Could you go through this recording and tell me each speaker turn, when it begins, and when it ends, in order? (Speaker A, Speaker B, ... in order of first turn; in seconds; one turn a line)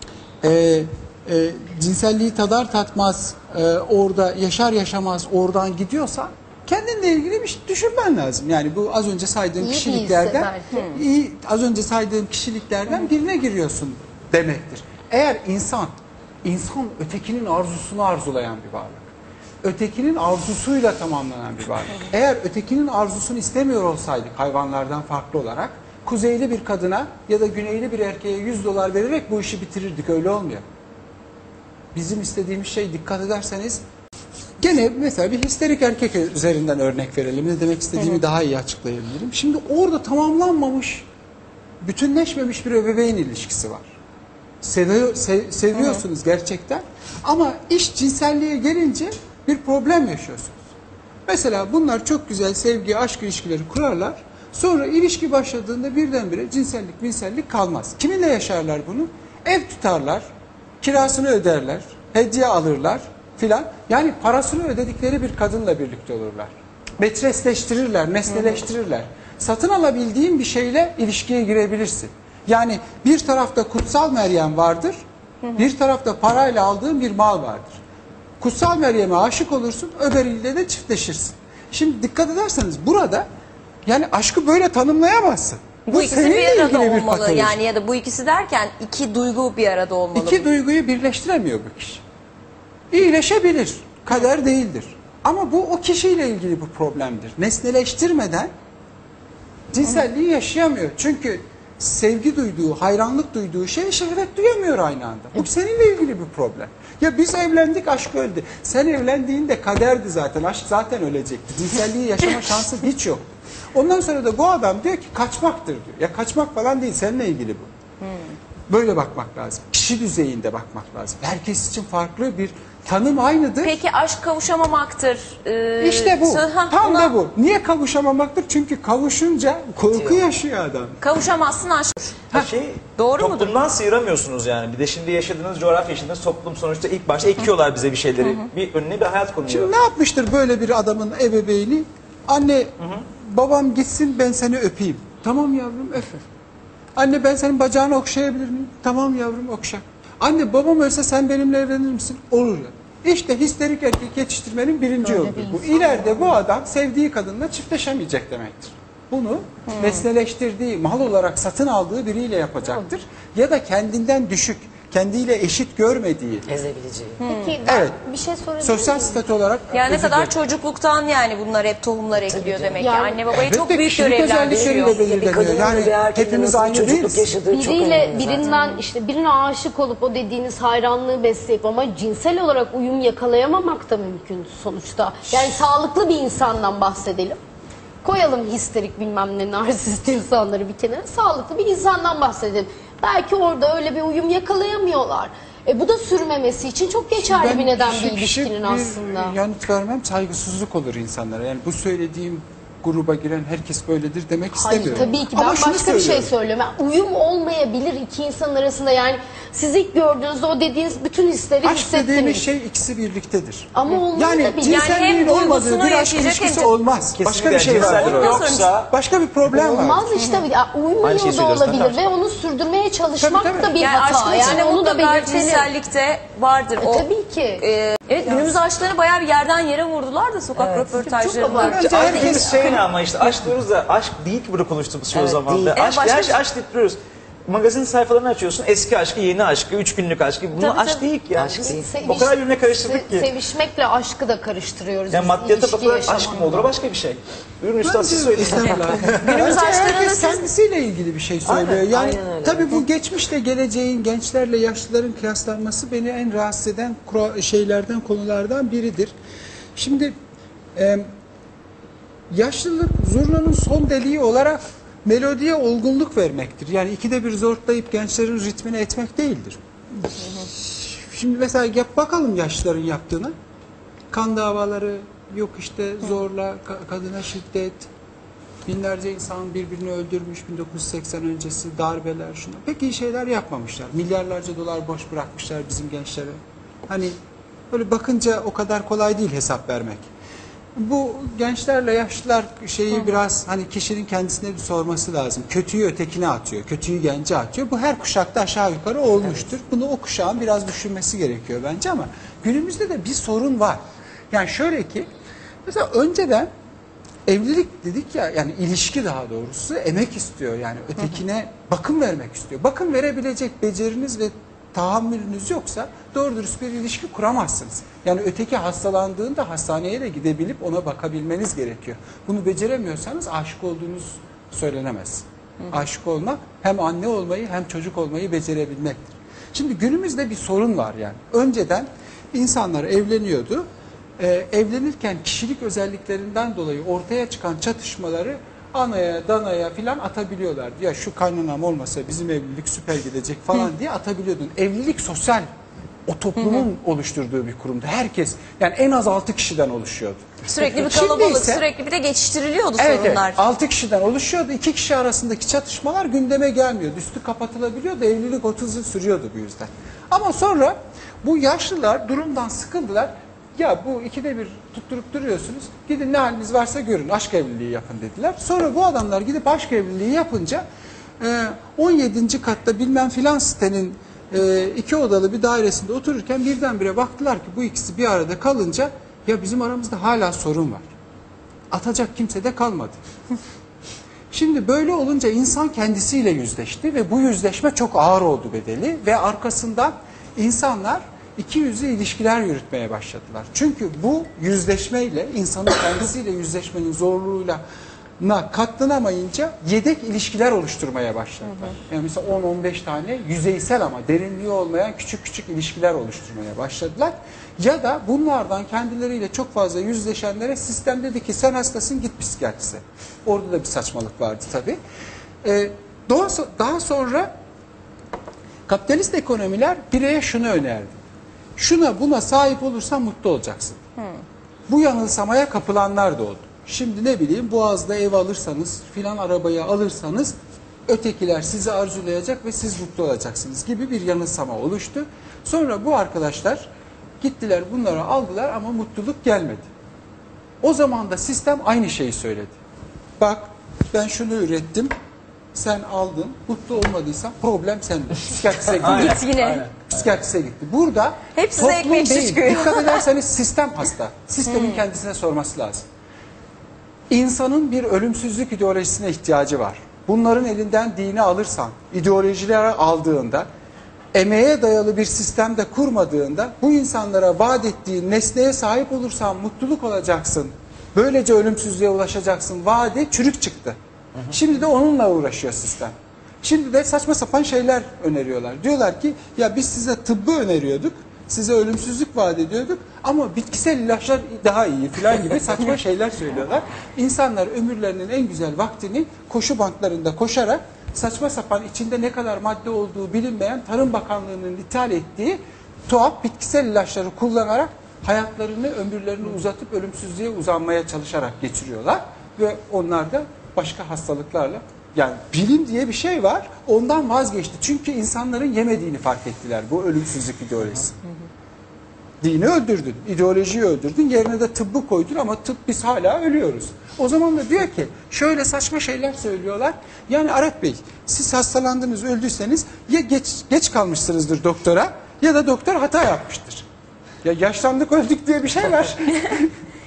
Speaker A: 0.4-15.9
Speaker B: 9.6-10.8
Speaker C: 10.7-11.0
Speaker A: 16.4-19.1
Speaker A: 19.6-30.6
Speaker A: 31.9-33.8
Speaker A: 34.6-41.1
Speaker A: 41.8-43.9
Speaker A: 44.6-50.6
Speaker A: 51.3-60.2
Speaker A: 60.8-75.0
Speaker A: 75.5-77.8
Speaker A: 78.4-83.3
Speaker A: 83.8-87.6
Speaker C: 85.9-90.5
Speaker A: 90.1-92.0
Speaker A: 92.9-98.5
Speaker A: 99.7-117.7
Speaker A: 118.7-123.8
Speaker C: 123.6-127.1
Speaker A: 125.8-131.0
Speaker D: 129.9-130.2
Speaker C: 131.0-132.4
Speaker E: 132.3-139.7
Speaker C: 133.0-133.5
Speaker A: 139.5-146.1
Speaker A: 146.9-166.5
Speaker B: 155.0-156.3
Speaker C: 159.8-160.0
Speaker D: 166.5-167.2
Speaker C: 167.2-167.6
Speaker B: 167.2-169.2
Speaker A: 167.6-168.0
Speaker A: 168.6-170.3
Speaker C: 169.7-175.0
Speaker D: 172.2-172.9
Speaker B: 172.8-173.2
Speaker A: 173.3-177.3
Speaker D: 174.4-178.5
Speaker B: 177.5-187.4
Speaker C: 178.4-178.8
Speaker B: 188.0-199.3
Speaker A: 197.2-206.3
Speaker B: 204.6-212.4
Speaker A: 211.6-220.1
Speaker B: 213.7-214.8
Speaker C: 214.7-216.7
Speaker E: 217.2-218.9
Speaker C: 217.8-218.7
Speaker B: 219.5-225.7
Speaker E: 221.0-222.1
Speaker A: 223.2-223.8
Speaker C: 223.8-227.1
Speaker B: 226.8-227.6
Speaker C: 227.6-232.8
Speaker D: 230.6-231.0
Speaker B: 231.0-231.8
Speaker A: 231.6-232.6
Speaker E: 231.7-243.3
Speaker D: 235.1-235.8
Speaker C: 235.7-236.4
Speaker C: 240.6-241.0
Speaker D: 241.3-241.9
Speaker B: 241.6-246.7
Speaker E: 245.1-249.4
Speaker A: 247.8-259.1
Speaker C: 249.2-250.4
Speaker D: 251.4-252.8
Speaker A: 259.8-260.1
Speaker A: 260.7-261.1
Speaker A: 262.3-273.3
Speaker A: 274.1-277.9
Speaker A: 278.6-287.1
Speaker A: 287.7-290.1
Speaker A: 290.8-305.1
Speaker A: 305.6-306.5
Speaker A: 307.2-333.6
Speaker A: 334.2-345.5
Speaker A: 346.1-351.6
Speaker C: 350.5-353.4
Speaker A: 352.8-370.6
Speaker A: 371.2-380.9
Speaker A: 381.7-383.0
Speaker A: 384.3-397.6
Speaker A: 398.2-414.8
Speaker A: 415.4-417.3
Speaker A: 418.7-420.9
Speaker A: 421.6-423.8
Speaker A: 424.7-430.4
Speaker A: 430.9-436.7
Speaker A: 437.2-439.7
Speaker A: 440.6-442.6
Speaker A: 443.2-444.9
Speaker A: 445.5-449.3
Speaker E: 448.8-449.9
Speaker C: 448.8-449.6
Speaker A: 449.9-455.8
Speaker C: 451.4-453.0
Speaker A: 457.1-463.5
Speaker A: 464.1-473.8
Speaker A: 474.3-511.0
Speaker A: 512.2-526.6
Speaker A: 527.2-529.5